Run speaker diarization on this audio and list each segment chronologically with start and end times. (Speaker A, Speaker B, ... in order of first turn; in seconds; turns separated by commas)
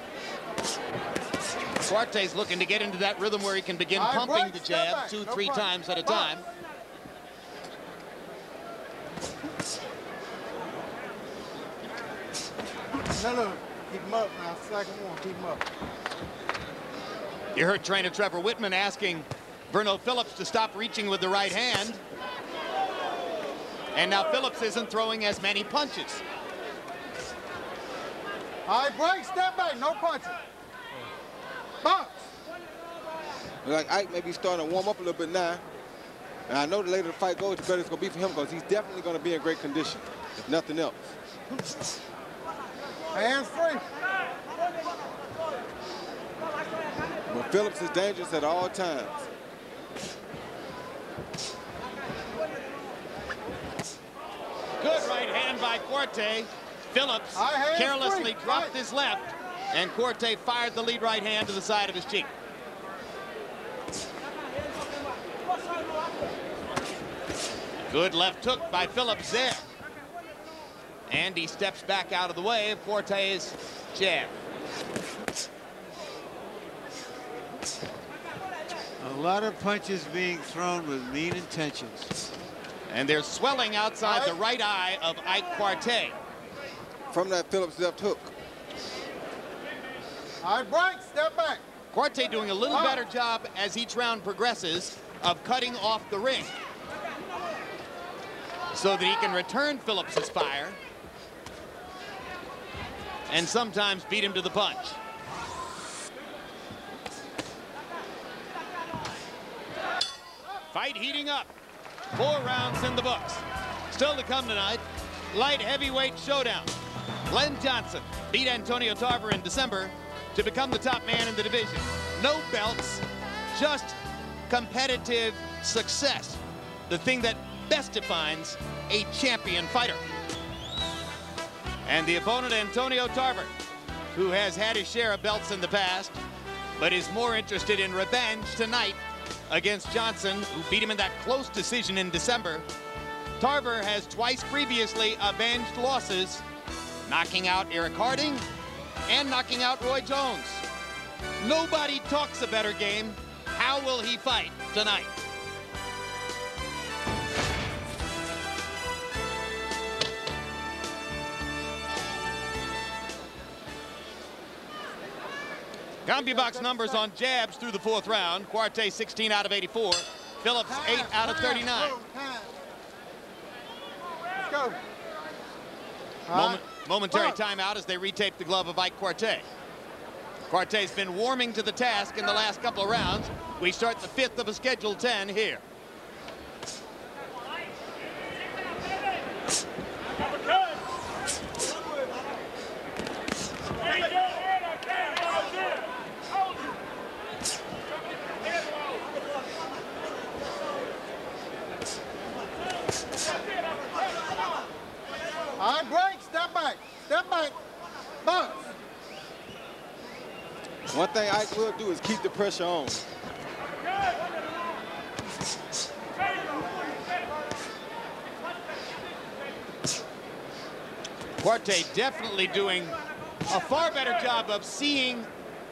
Speaker A: 1.9-6.5, Speaker B: 3.9-6.4, Speaker B: 13.1-15.6, Speaker A: 17.5-22.0, Speaker A: 23.9-26.2, Speaker B: 28.6-30.4, Speaker B: 31.8-32.2, Speaker C: 33.6-35.6, Speaker C: 36.5-41.1, Speaker B: 43.1-43.8, Speaker C: 47.3-49.2, Speaker A: 54.8-62.3, Speaker B: 57.3-58.7, Speaker A: 67.9-69.6, Speaker A: 71.1-74.3, Speaker D: 79.0-82.1, Speaker A: 82.9-86.2, Speaker B: 84.0-84.4, Speaker C: 87.1-88.3, Speaker B: 90.4-91.6, Speaker A: 91.9-96.5, Speaker B: 92.7-93.0, Speaker A: 98.7-100.8, Speaker A: 103.3-105.0, Speaker A: 110.7-111.5, Speaker A: 112.1-116.7, Speaker A: 117.3-124.0, Speaker A: 124.5-130.0, Speaker A: 131.8-133.5, Speaker A: 134.1-136.2, Speaker A: 136.8-142.7, Speaker A: 143.4-146.4, Speaker A: 147.1-148.4, Speaker A: 149.1-150.6, Speaker A: 151.4-155.1, Speaker A: 166.1-172.0, Speaker B: 166.2-167.0, Speaker B: 170.6-172.5, Speaker B: 174.4-174.8, Speaker B: 176.3-177.4, Speaker A: 176.3-179.4, Speaker A: 180.5-185.6, Speaker B: 205.6-207.5, Speaker B: 208.2-208.7, Speaker C: 210.9-213.0, Speaker A: 221.4-222.9, Speaker A: 223.5-225.3